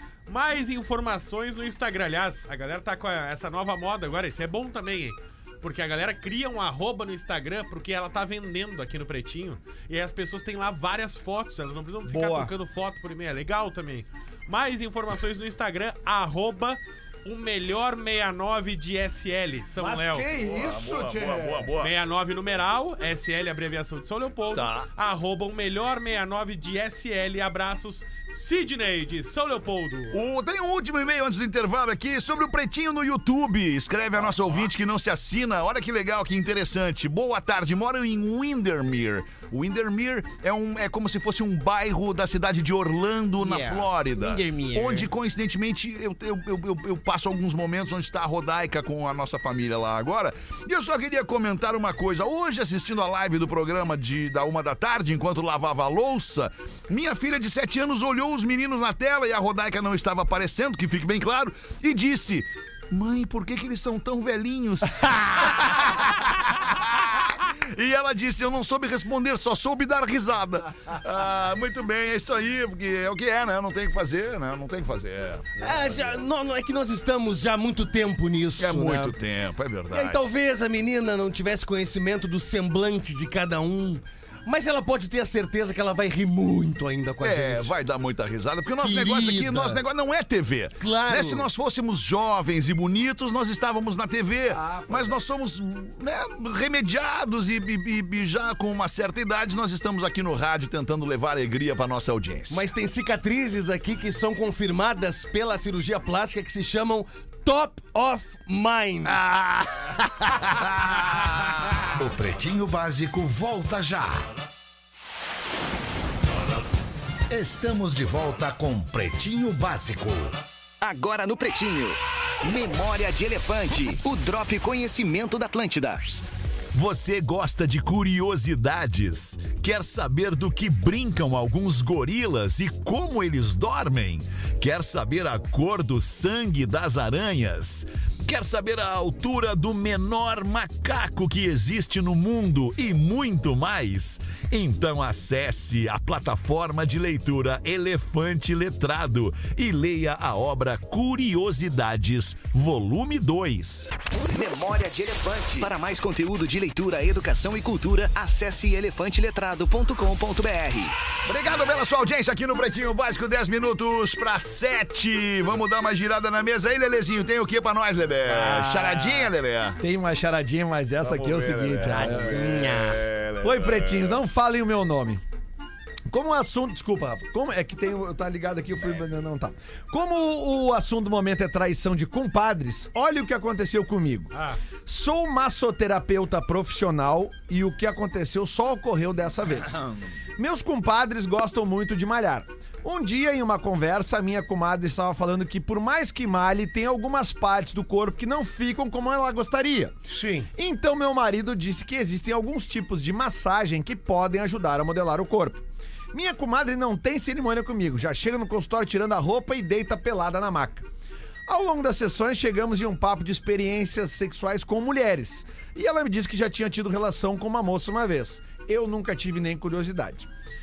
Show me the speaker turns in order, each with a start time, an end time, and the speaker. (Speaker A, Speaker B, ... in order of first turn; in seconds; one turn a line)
Speaker A: 0.3-20.3
Speaker B: 12.1-12.5
Speaker C: 19.8-21.7
Speaker D: 20.3-21.9
Speaker A: 21.8-30.2
Speaker D: 24.5-24.9
Speaker D: 30.1-75.7
Speaker B: 43.4-45.1
Speaker B: 75.6-79.1
Speaker D: 78.6-80.2
Speaker B: 79.9-87.7
Speaker D: 87.2-102.7
Speaker B: 88.8-89.8
Speaker B: 90.8-91.5
Speaker C: 94.5-95.2
Speaker B: 102.5-109.2
Speaker D: 109.0-111.8
Speaker E: 112.0-114.3
Speaker E: 117.3-120.4
Speaker F: 120.8-126.1
Speaker D: 126.7-153.9
Speaker F: 154.2-160.9
Speaker D: 161.2-169.8
Speaker C: 168.3-172.6
Speaker D: 171.0-174.2
Speaker B: 171.9-173.0
Speaker C: 173.4-175.2
Speaker C: 176.1-184.3
Speaker A: 184.3-184.6
Speaker C: 184.8-189.8
Speaker D: 189.5-190.1
Speaker C: 190.4-200.0
Speaker B: 200.1-200.5
Speaker C: 200.5-210.9
Speaker C: 211.5-220.3